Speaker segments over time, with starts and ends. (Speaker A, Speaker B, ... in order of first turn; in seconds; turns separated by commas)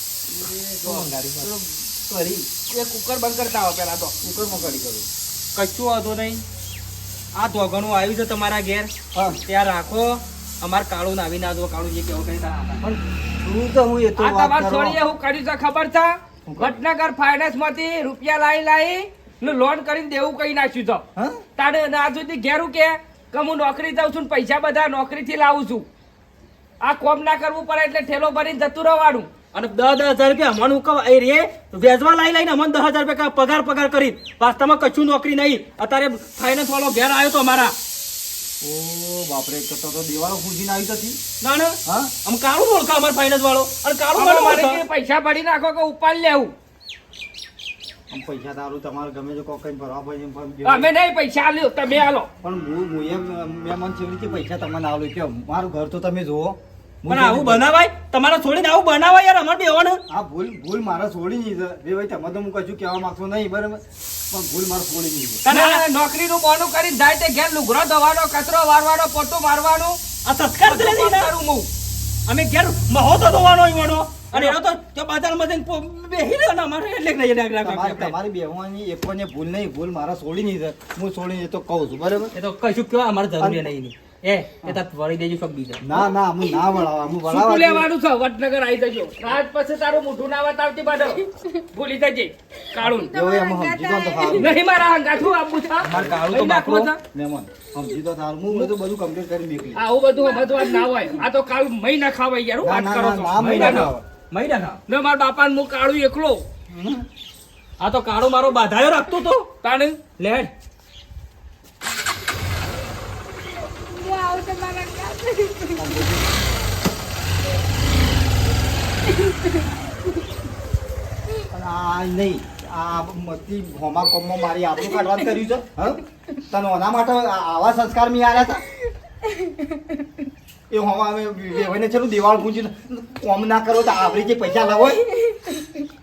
Speaker A: 0.3-1.5, Speaker B: 0.8-1.5, Speaker B: 2.1-2.4, Speaker C: 2.6-4.2, Speaker B: 4.2-5.1, Speaker A: 5.5-6.4, Speaker A: 7.3-8.9, Speaker B: 9.1-9.4, Speaker A: 9.4-12.8, Speaker B: 12.8-15.0, Speaker C: 14.2-21.0, Speaker B: 16.4-16.7, Speaker C: 21.6-25.9, Speaker C: 26.8-29.3, Speaker A: 29.5-37.7, Speaker B: 38.6-41.2, Speaker A: 41.4-44.8, Speaker B: 41.9-42.1, Speaker C: 44.1-46.5, Speaker B: 48.1-50.9, Speaker C: 50.6-52.3, Speaker B: 52.4-57.6, Speaker A: 57.1-60.0, Speaker B: 60.1-65.4, Speaker A: 65.4-65.8, Speaker C: 65.5-70.0, Speaker A: 70.2-71.3, Speaker C: 70.6-71.7, Speaker A: 72.3-78.1, Speaker B: 77.6-82.3, Speaker A: 82.3-85.9, Speaker B: 83.4-83.6, Speaker B: 85.8-87.8, Speaker D: 86.4-86.8, Speaker C: 87.2-91.2, Speaker D: 91.2-91.6, Speaker C: 91.7-93.1, Speaker B: 92.8-94.5, Speaker D: 92.8-94.5, Speaker C: 94.4-97.0, Speaker A: 95.8-96.9, Speaker B: 95.9-96.2, Speaker B: 97.0-99.8, Speaker C: 99.8-103.9, Speaker D: 100.2-101.0, Speaker B: 102.6-104.0, Speaker A: 103.3-104.8, Speaker C: 104.9-106.4, Speaker B: 106.7-107.0, Speaker A: 107.8-109.5, Speaker C: 109.6-110.5, Speaker A: 110.2-110.5, Speaker D: 113.7-116.0, Speaker B: 115.8-116.3, Speaker D: 119.1-119.6, Speaker B: 121.5-128.6, Speaker D: 129.3-129.6, Speaker B: 130.7-135.0, Speaker D: 135.2-135.6